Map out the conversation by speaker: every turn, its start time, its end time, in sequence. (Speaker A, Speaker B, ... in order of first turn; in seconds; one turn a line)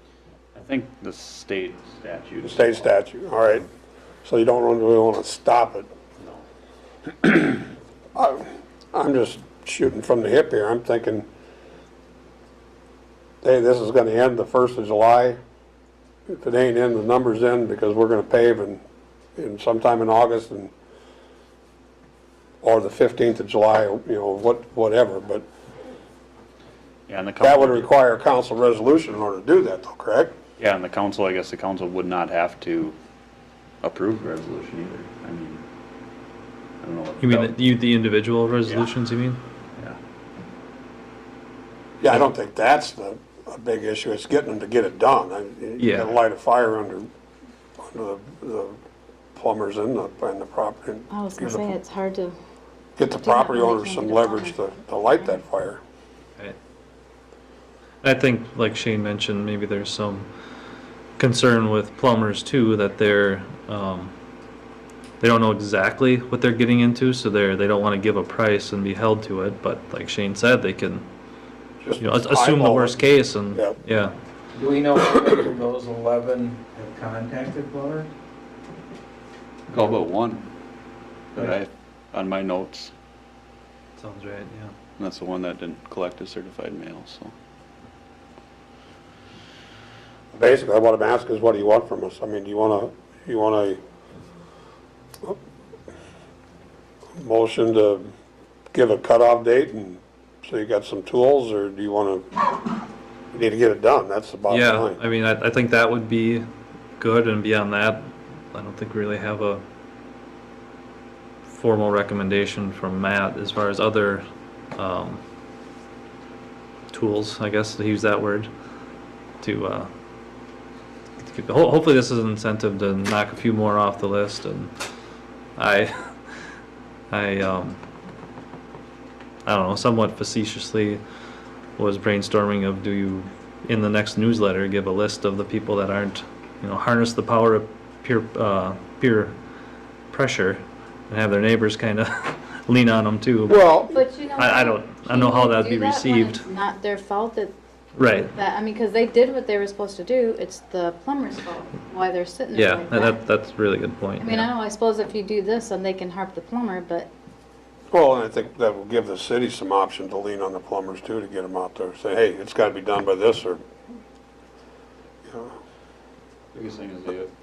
Speaker A: 0.5-2.7
Speaker B: 2.4-3.7
Speaker B: 4.2-5.9
Speaker B: 7.2-7.6
Speaker B: 8.2-11.3
Speaker B: 13.4-15.4
Speaker B: 16.3-18.8
Speaker B: 19.4-20.7
Speaker B: 22.6-25.4
Speaker A: 27.1-27.9
Speaker B: 27.4-30.3
Speaker A: 30.6-33.0
Speaker A: 33.8-35.6
Speaker A: 36.8-37.5
Speaker C: 37.2-39.4
Speaker B: 42.0-47.1
Speaker C: 45.8-46.1
Speaker B: 47.8-48.8
Speaker B: 49.4-51.7
Speaker D: 51.1-52.4
Speaker B: 53.0-55.8
Speaker D: 53.2-54.6
Speaker C: 58.0-60.3
Speaker C: 61.2-64.1
Speaker C: 65.2-71.1
Speaker B: 71.8-73.8
Speaker C: 72.0-74.2
Speaker E: 74.5-78.1
Speaker A: 79.7-80.5
Speaker A: 81.3-82.9
Speaker C: 84.0-84.8
Speaker A: 85.0-87.3
Speaker B: 90.3-93.8
Speaker B: 97.2-98.1
Speaker B: 98.7-102.4
Speaker B: 103.3-105.0
Speaker C: 104.5-106.5
Speaker C: 107.0-109.6
Speaker C: 111.5-114.2
Speaker C: 114.8-115.2
Speaker C: 116.9-118.5
Speaker C: 119.4-119.9
Speaker C: 121.2-124.7
Speaker C: 125.6-126.2
Speaker C: 127.1-127.8
Speaker C: 129.4-131.0
Speaker C: 131.8-139.3
Speaker C: 140.1-146.4
Speaker B: 143.5-144.0
Speaker D: 143.9-147.5
Speaker C: 147.9-148.3
Speaker D: 148.2-153.2
Speaker C: 152.5-154.5
Speaker D: 154.2-157.1
Speaker B: 157.9-163.6
Speaker B: 165.3-165.5
Speaker A: 166.5-167.3